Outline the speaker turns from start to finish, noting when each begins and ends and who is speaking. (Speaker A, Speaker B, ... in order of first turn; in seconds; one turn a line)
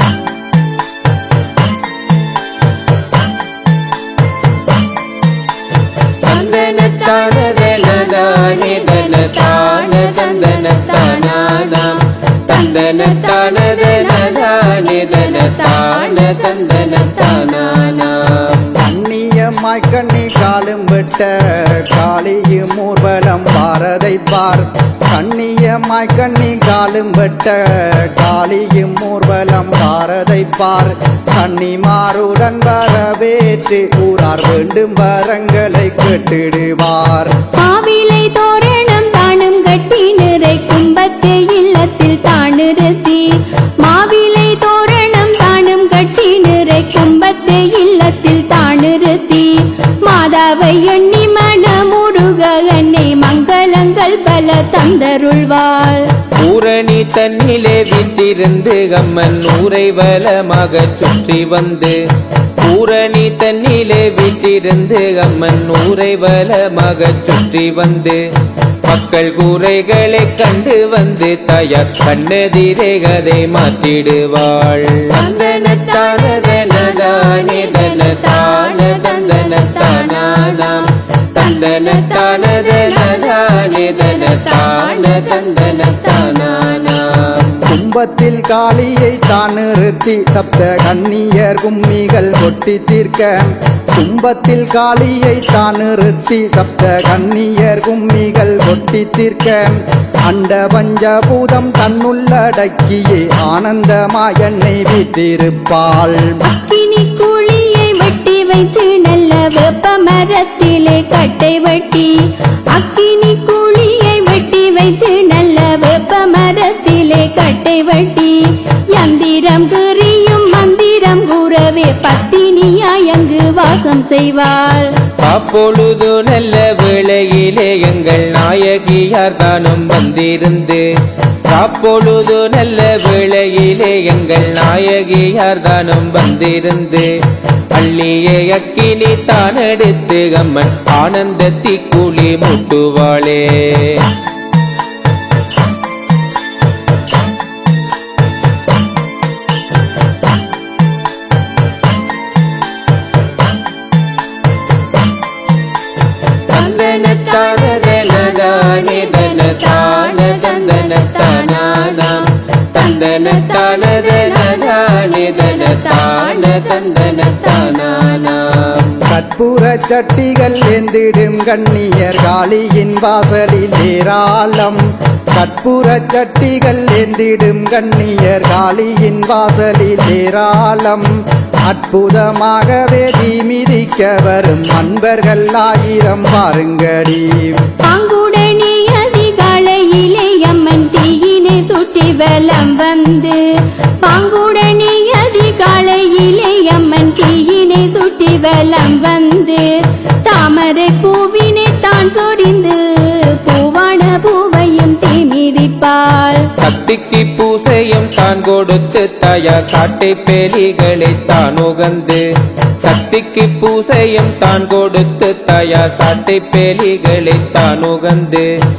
Speaker A: 6.2-18.7
Speaker B: 8.5-11.4
Speaker B: 13.5-18.0
Speaker C: 18.7-37.3
Speaker B: 37.5-56.1
Speaker A: 56.4-62.0
Speaker A: 62.6-68.2
Speaker A: 68.8-87.6
Speaker B: 75.4-77.4
Speaker B: 78.4-79.4
Speaker C: 87.7-106.4
Speaker B: 106.4-124.9
Speaker A: 125.2-130.8
Speaker A: 131.5-137.1
Speaker A: 137.7-144.1
Speaker A: 156.5-168.9
Speaker C: 169.1-181.1
Speaker C: 181.7-187.6
Speaker B: 187.8-193.4
Speaker B: 194.0-206.5
Speaker A: 206.6-212.2
Speaker A: 212.8-218.5